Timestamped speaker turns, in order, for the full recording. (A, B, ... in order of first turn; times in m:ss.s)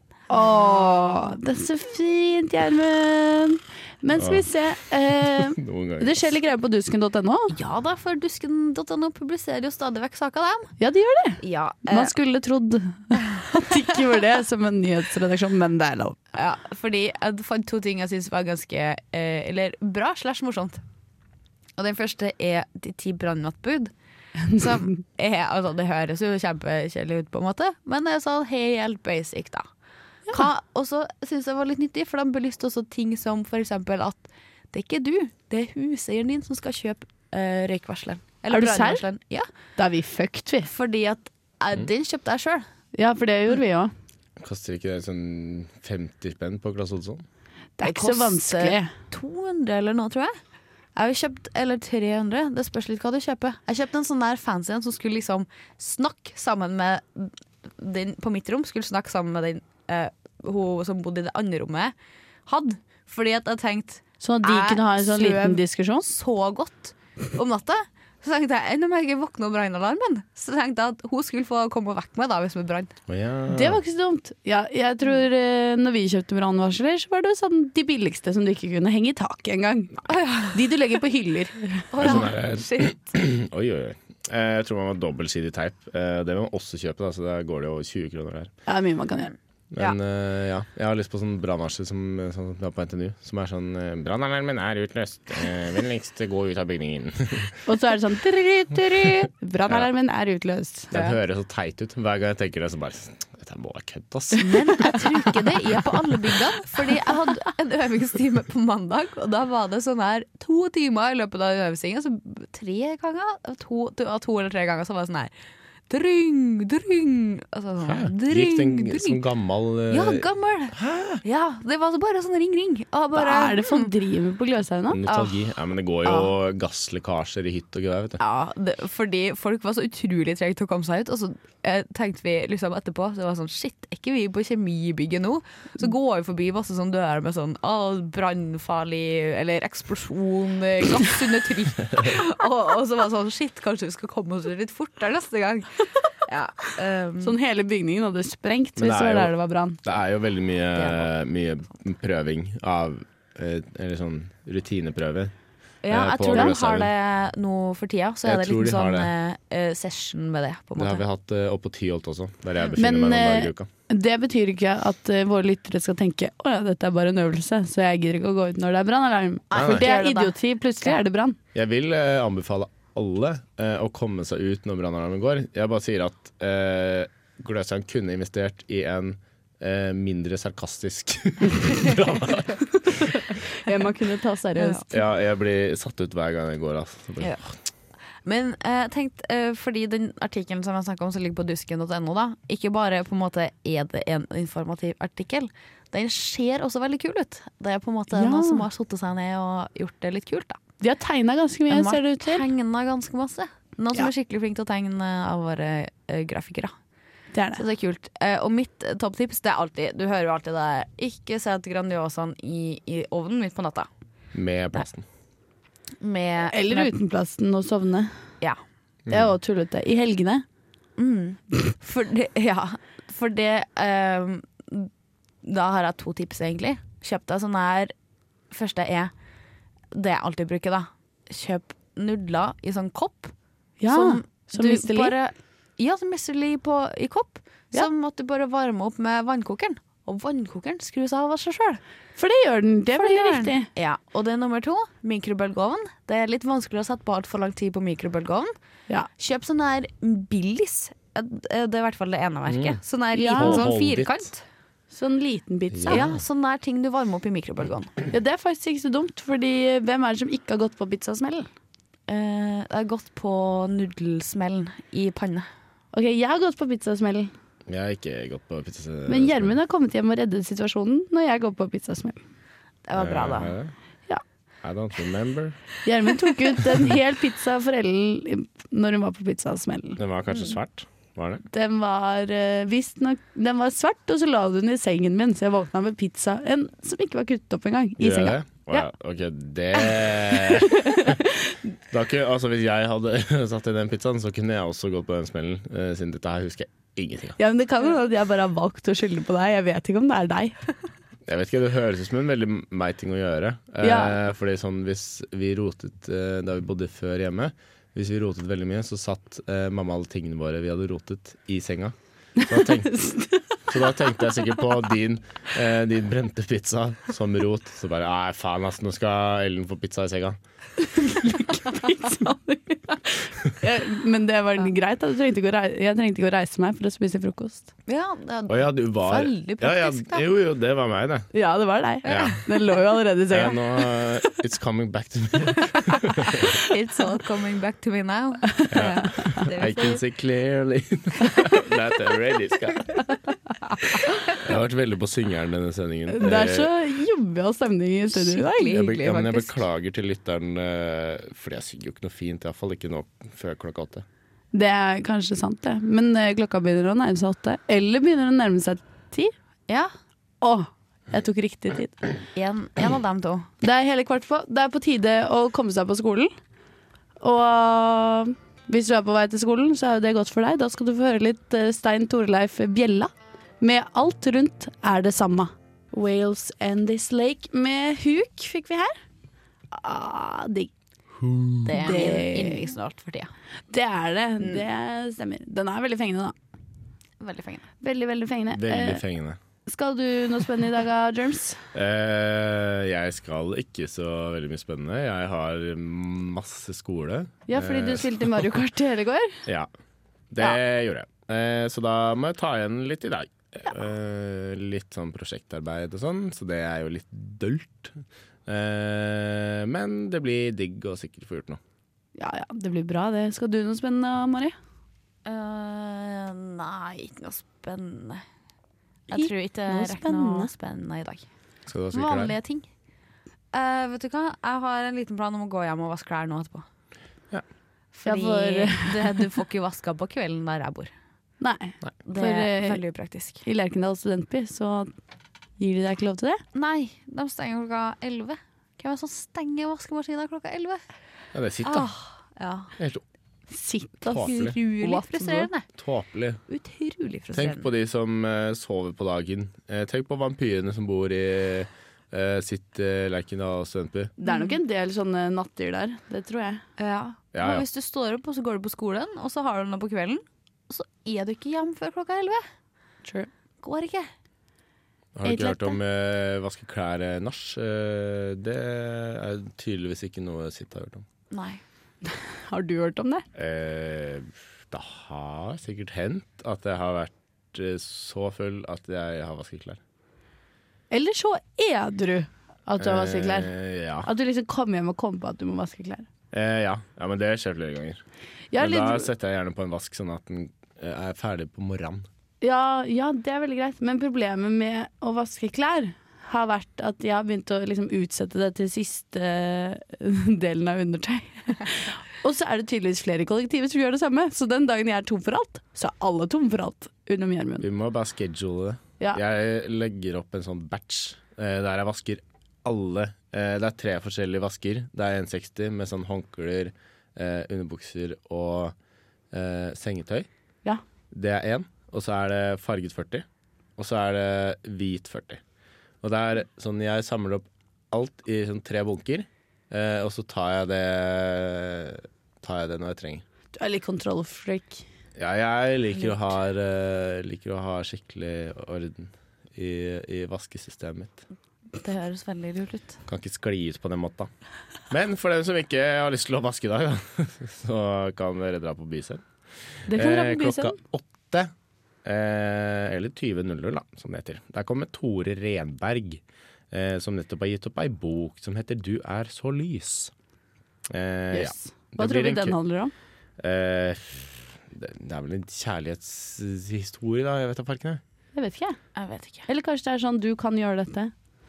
0:00.3-0:07.5 A
0:04.2-0:04.5 B
0:05.2-0:06.2 B
0:07.5-0:10.7 C
0:10.8-0:16.2 A
0:11.4-0:12.1 C
0:16.4-0:20.8 C
0:21.8-0:23.9 C
0:24.5-0:29.7 C
0:30.3-0:39.5 C
0:38.5-0:39.0 A
0:39.8-0:40.7 A
0:40.7-0:42.6 C
0:43.0-0:43.9 A
0:44.4-0:47.2 B
0:47.8-0:48.9 A
0:47.8-0:50.4 C
0:51.0-1:01.9 C
1:02.5-1:12.9 C
1:04.2-1:06.1 A
1:13.1-1:13.8 B
1:13.5-1:21.9 A
1:20.0-1:20.6 C
1:21.9-1:23.1 C
1:22.0-1:28.5 B
1:28.7-1:29.3 A
1:29.7-1:37.6 B
1:37.7-1:41.1 A
1:40.9-1:45.0 B
1:44.4-1:55.3 C
1:55.9-1:59.2 C
1:57.8-2:01.2 B
1:59.9-2:03.9 C
2:03.1-2:05.0 A
2:04.9-2:08.2 B
2:05.1-2:05.5 C
2:06.0-2:06.3 C
2:08.2-2:27.4 C
2:27.2-2:29.8 A
2:28.8-2:29.3 B
2:29.8-2:35.3 B
2:30.8-2:31.1 C
2:35.8-2:41.0 C
2:35.9-2:36.9 B
2:38.2-2:39.1 B
2:40.8-2:43.7 B
2:42.8-2:51.4 A
2:49.5-2:51.0 C
2:49.5-2:49.8 B
2:51.5-3:03.2 B
3:03.6-3:05.0 A
3:04.9-3:07.5 B
3:08.2-3:20.6 C
3:18.1-3:18.7 A
3:20.8-3:22.5 A
3:21.7-3:26.7 C
3:27.3-3:27.6 A
3:27.6-3:33.9 C
3:34.3-3:35.0 B
3:36.0-3:36.9 C
3:36.5-3:38.2 A
3:39.1-3:39.3 B
3:39.1-3:40.4 A
3:41.0-3:44.9 C
3:45.4-3:47.9 C
3:48.5-3:49.1 C
3:49.9-3:53.3 C
3:53.8-3:55.1 A
3:53.9-4:01.8 C
4:02.2-4:03.7 A
4:02.9-4:08.5 C
4:09.2-4:14.4 C
4:12.5-4:12.8 B
4:13.1-4:13.7 A
4:13.3-4:14.3 B
4:14.9-4:16.1 A
4:15.7-4:16.2 B
4:15.9-4:18.0 C
4:18.1-4:21.5 A
4:22.1-4:25.5 C
4:25.9-4:27.3 A
4:27.7-4:29.5 B
4:29.1-4:32.2 A
4:32.9-4:33.5 C
4:33.0-4:33.7 B
4:34.6-4:35.6 B
4:35.8-4:40.0 A
4:40.0-4:41.4 B
4:41.5-4:48.9 A
4:48.0-4:51.2 B
4:50.6-4:51.6 A
4:51.9-4:57.4 B
4:57.4-5:00.6 A
5:01.3-5:13.1 B
5:03.8-5:04.2 A
5:12.4-5:13.4 A
5:13.7-5:20.4 B
5:20.8-5:27.7 A
5:27.9-5:30.2 C
5:28.5-5:31.3 B
5:31.3-5:34.0 A
5:32.0-5:32.4 B
5:32.0-5:32.4 C
5:33.3-5:36.5 B
5:35.9-5:36.5 A
5:36.4-5:40.0 C
5:38.6-5:39.2 A
5:38.7-5:43.0 B
5:44.4-5:46.7 B
5:46.1-5:48.7 A
5:48.1-5:49.6 C
5:48.7-5:54.1 B
5:54.5-5:59.3 A
6:00.4-6:02.0 A
6:02.4-6:03.5 C
6:03.6-6:06.3 A
6:07.2-6:19.0 A
6:19.7-6:20.7 A
6:21.2-6:21.5 B
6:21.6-6:23.3 C
6:21.7-6:22.7 A
6:23.7-6:26.4 A
6:27.2-6:27.7 C
6:27.8-6:29.0 A
6:28.5-6:29.4 B
6:29.7-6:31.6 A
6:31.7-6:38.4 B
6:37.5-6:39.4 A
6:40.3-6:51.6 B
6:52.2-6:54.6 A
6:55.2-6:58.2 C
6:59.1-7:01.3 C
6:59.1-7:00.5 A
7:01.7-7:02.3 B
7:01.9-7:02.7 C
7:03.5-7:06.7 C
7:07.9-7:10.9 C
7:08.0-7:09.3 A
7:11.4-7:12.8 A
7:12.0-7:13.4 C
7:13.4-7:14.9 A
7:15.6-7:16.4 A
7:16.5-7:20.8 C
7:21.3-7:21.9 B
7:21.6-7:22.7 C
7:22.8-7:23.0 B
7:23.5-7:25.5 A
7:24.1-7:24.6 B
7:24.2-7:25.7 C
7:25.8-7:26.4 B
7:26.5-7:27.7 C
7:27.3-7:34.1 B
7:34.2-7:36.6 A
7:34.3-7:34.6 C
7:36.8-7:42.4 C
7:37.3-7:37.7 B
7:43.6-7:44.1 C
7:45.2-7:51.0 B
7:45.2-7:45.8 A
7:51.3-7:51.6 C
7:52.1-7:53.3 A
7:53.4-7:59.8 B
8:00.9-8:06.1 A
8:02.8-8:04.1 B
8:06.3-8:08.0 B
8:08.5-8:09.1 A
8:08.6-8:12.1 B
8:12.4-8:27.7 A
8:27.6-8:38.8 B
8:39.3-8:40.3 B
8:41.1-8:43.3 B
8:43.8-8:45.4 B
8:46.0-8:53.2 B
8:53.6-8:54.8 A
8:55.2-9:01.2 B
9:01.8-9:03.0 C
9:03.1-9:04.3 B
9:04.9-9:09.2 B
9:09.9-9:10.8 A
9:09.9-9:11.5 B
9:12.0-9:20.1 B
9:20.9-9:22.6 B
9:21.3-9:22.9 A
9:23.4-9:28.0 B
9:28.4-9:28.8 A
9:29.0-9:29.5 C
9:29.5-9:31.1 A